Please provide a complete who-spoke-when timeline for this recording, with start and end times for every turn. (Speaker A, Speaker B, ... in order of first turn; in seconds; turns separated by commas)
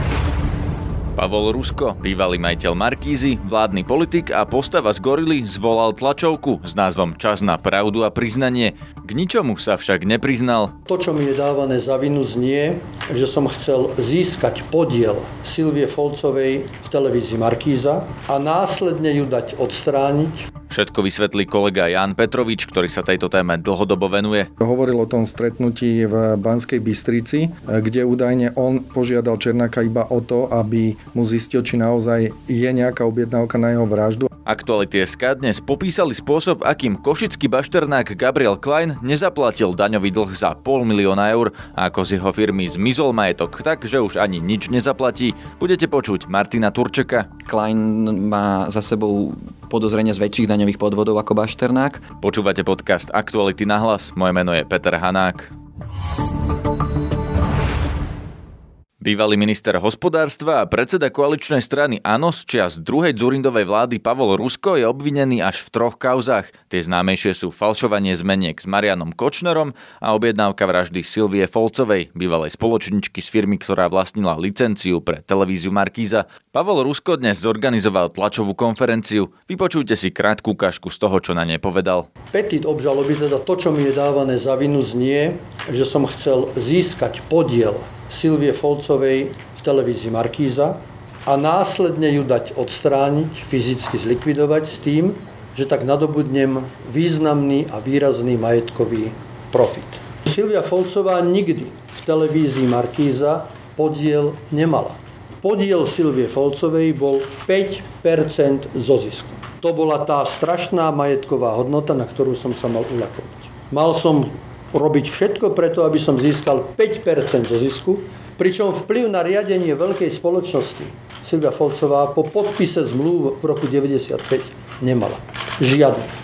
Speaker A: 1.2-10.7, Speaker B: 10.9-20.4, Speaker A: 20.7-24.5, Speaker C: 24.6-34.3, Speaker A: 34.5-47.3, Speaker D: 47.5-52.0, Speaker A: 52.2-55.5, Speaker A: 59.0-82.1, Speaker B: 82.3-126.1